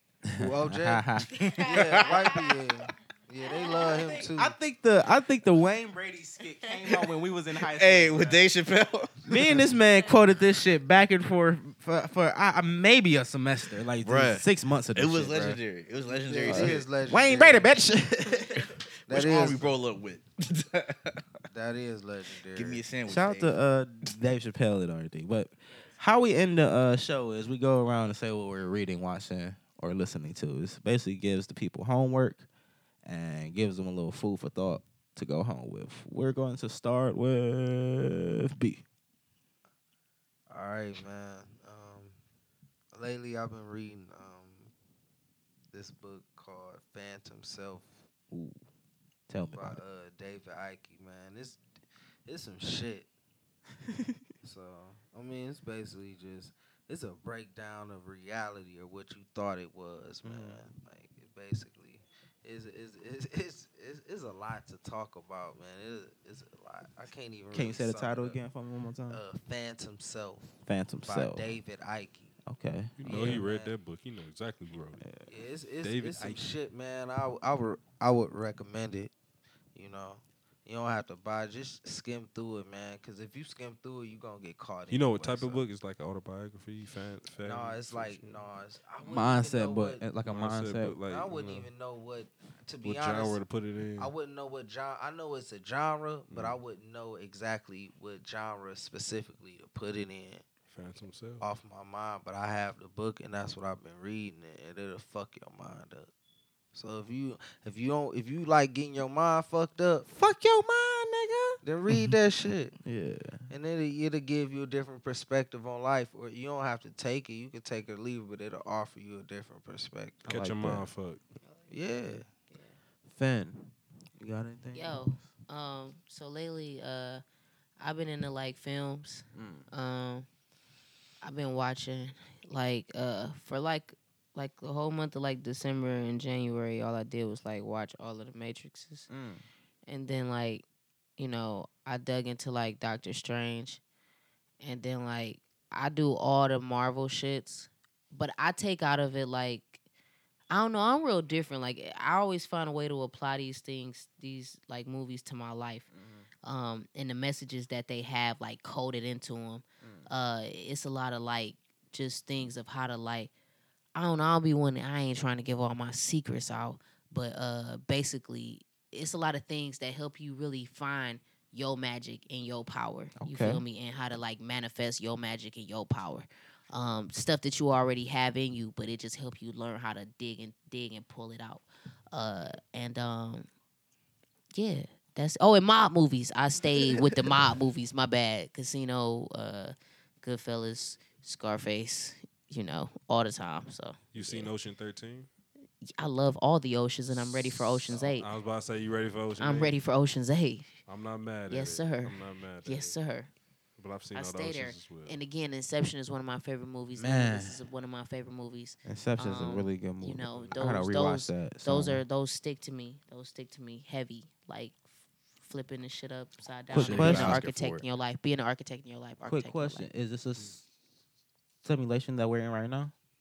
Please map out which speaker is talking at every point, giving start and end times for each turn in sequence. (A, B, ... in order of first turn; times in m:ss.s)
0:00.2-0:01.4 A
0:00.4-0:04.5 B
0:01.3-0:02.4 C
0:04.1-0:08.4 A
0:07.6-0:09.7 C
0:09.3-0:15.6 A
0:14.0-0:16.9 C
0:16.1-0:17.7 B
0:16.4-0:18.7 A
0:19.1-0:19.7 B
0:19.1-0:21.2 C
0:21.5-0:22.8 B
0:22.5-0:23.6 C
0:23.1-0:32.4 A
0:33.0-0:38.8 A
0:40.5-0:42.2 B
0:42.9-0:44.7 B
0:45.7-0:47.9 B
0:48.3-0:48.6 A
0:49.3-0:49.8 A
0:49.5-0:51.6 B
0:52.2-0:53.1 B
0:54.4-1:08.4 B
1:00.2-1:00.6 A
1:07.5-1:09.2 A
1:09.1-1:10.5 B
1:10.6-1:11.5 A
1:11.0-1:12.3 B
1:12.5-1:13.4 A
1:13.0-1:15.0 D
1:13.0-1:13.7 B
1:15.3-1:19.1 B
1:15.8-1:16.4 D
1:19.7-1:25.6 B
1:24.9-1:28.4 D
1:27.4-1:30.0 B
1:29.0-1:31.0 A
1:30.3-1:31.7 D
1:31.1-1:33.4 B
1:32.8-1:34.1 D
1:34.0-1:40.4 B
1:36.3-1:36.6 D
1:40.7-1:41.5 D
1:41.4-1:46.1 B
1:46.7-1:50.1 B
1:50.1-1:52.1 A
1:51.6-1:52.7 B
1:52.8-1:53.5 A
1:53.5-2:00.3 B
2:00.3-2:01.2 D
2:00.3-2:00.9 A
2:01.7-2:02.2 B
2:02.5-2:02.8 E
2:03.1-2:05.2 A
2:04.7-2:07.2 E
2:07.8-2:10.2 E
2:09.3-2:09.6 A
2:11.2-2:19.1 E
2:19.1-2:19.4 A
2:19.9-2:20.6 E
2:21.2-2:23.8 E
2:24.6-2:29.8 E
2:30.5-2:35.8 E
2:35.9-2:36.2 A
2:36.4-2:43.3 E
2:39.8-2:40.1 A
2:44.0-3:03.5 E
2:53.2-2:53.6 A
3:04.5-3:14.5 E
3:14.1-3:15.3 D
3:15.8-3:18.3 E
3:17.9-3:19.8 D
3:19.4-3:20.7 E
3:20.9-3:22.9 D
3:21.5-3:23.3 E
3:23.8-3:25.2 D
3:24.1-3:34.8 E
3:27.0-3:27.6 A
3:28.8-3:32.0 A
3:35.4-3:39.9 E
3:36.7-3:37.4 A
3:36.7-3:37.8 C
3:39.2-3:40.6 A
3:41.6-3:42.9 A